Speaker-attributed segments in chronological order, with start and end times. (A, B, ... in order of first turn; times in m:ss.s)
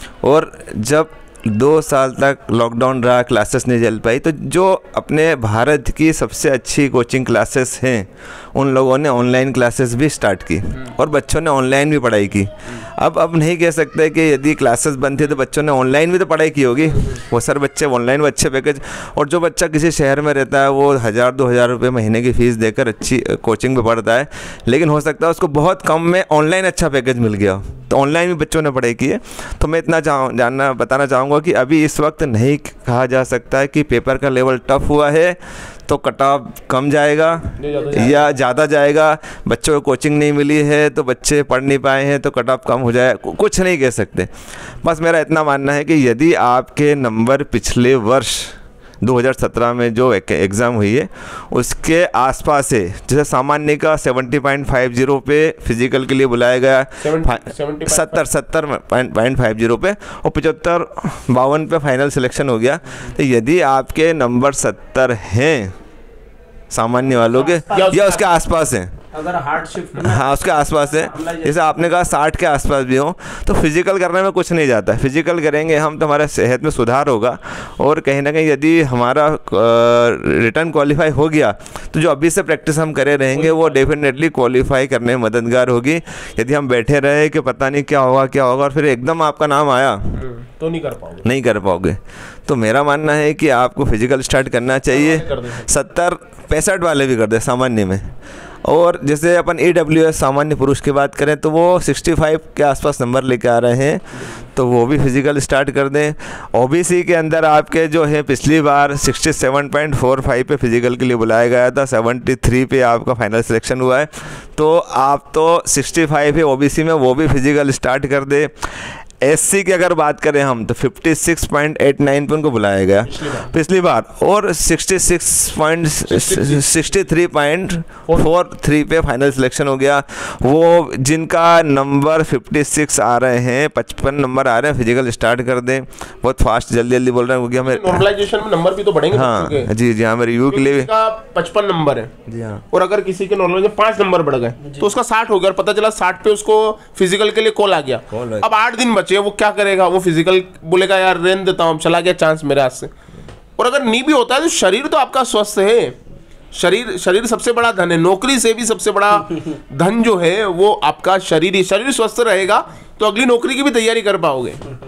0:00.2-1:05.7 A
0:37.6-0:38.2 B
0:57.0-0:58.2 B
1:06.7-1:08.9 A
1:07.2-1:08.2 C
1:07.7-1:08.1 B
1:09.1-1:11.9 C
1:10.0-1:30.2 A
1:23.3-1:23.8 B
1:30.2-1:31.3 B
1:31.2-1:38.1 A
1:34.9-1:35.6 B
1:38.6-1:44.0 A
1:44.5-2:18.0 A
2:03.1-2:03.5 B
2:06.0-2:06.7 B
2:17.6-2:19.7 B
2:19.1-2:20.9 A
2:20.5-2:22.1 B
2:22.3-2:22.6 A
2:22.7-2:32.9 B
2:28.1-2:28.5 A
2:33.6-2:36.0 B
2:36.5-2:44.6 B